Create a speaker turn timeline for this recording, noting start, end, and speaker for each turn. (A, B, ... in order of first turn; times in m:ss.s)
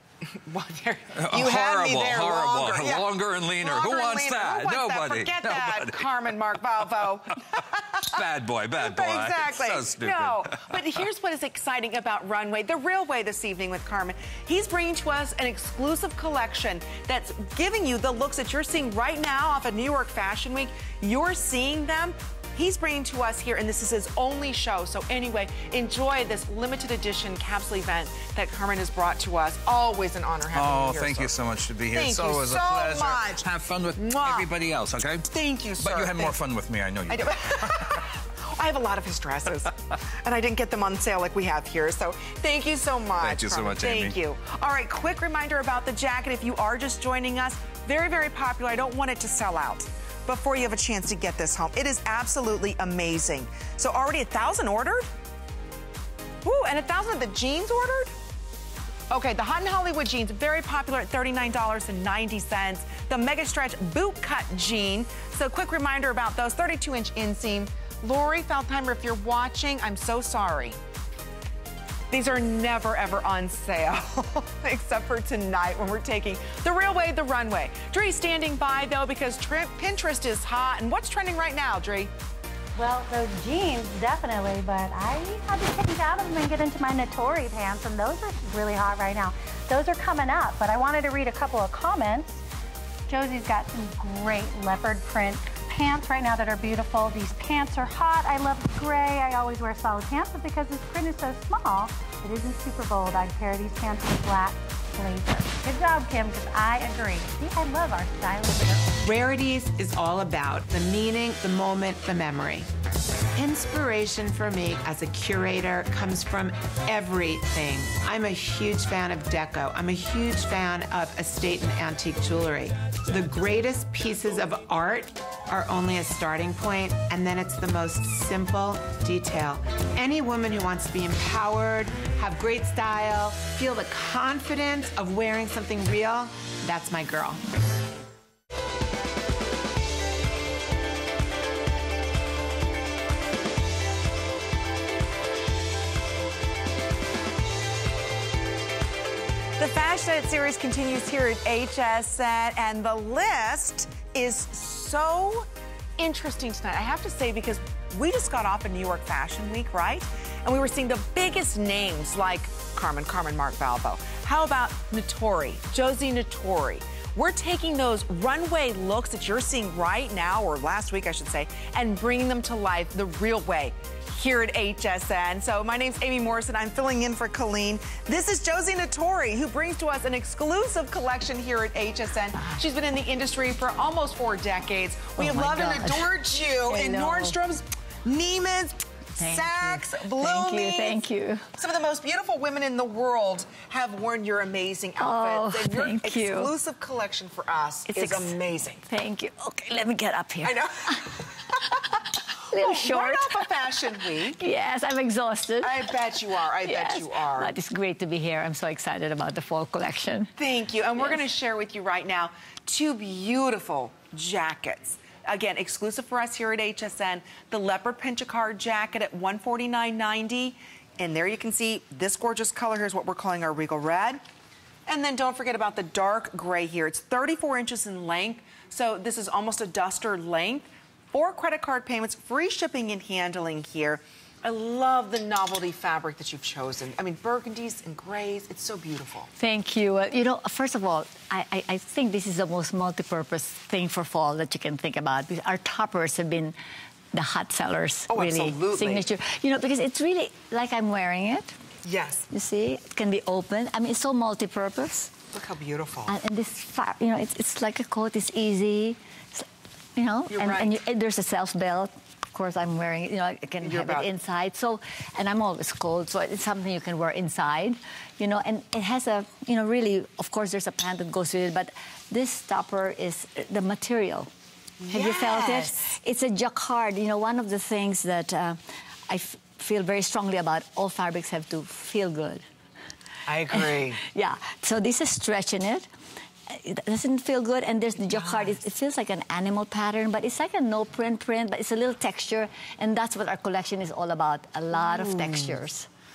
0:00.3-0:08.1 A
0:01.1-0:06.0 B
0:07.9-0:10.8 B
0:08.7-0:31.4 A
0:30.5-0:38.0 B
0:31.9-0:34.5 A
0:35.3-0:36.4 A
0:37.1-0:55.1 A
0:43.2-0:44.1 B
0:56.4-0:58.1 A
0:59.1-1:10.8 A
1:12.1-1:22.1 A
1:22.8-1:32.4 C
1:33.1-1:48.9 C
1:49.0-1:52.7 D
1:53.3-2:17.4 D
2:29.6-2:35.5 A
2:36.0-3:11.0 A
3:05.2-3:07.4 E
3:09.2-3:11.5 E
3:11.6-3:18.8 A
3:15.0-3:16.5 E
3:17.9-3:21.1 E
3:20.4-3:21.2 A
3:22.5-3:23.5 E
3:22.5-3:24.4 A
3:24.3-3:25.9 E
3:25.6-3:27.5 A
3:26.6-3:30.3 E
3:30.4-3:44.2 A
3:44.9-3:59.3 A
3:59.4-4:06.5 E
4:07.1-4:11.5 E
4:08.1-4:09.1 A
4:11.8-4:12.3 A
4:12.3-4:15.1 E
4:15.3-4:16.1 A
4:16.1-4:34.3 E
4:20.3-4:20.8 A
4:23.6-4:24.1 A
4:34.8-4:35.8 A
4:34.9-4:42.4 E
4:43.2-4:44.0 A
4:43.5-4:45.9 E
4:46.5-4:55.9 E
4:48.1-4:48.6 A
4:54.7-4:55.6 A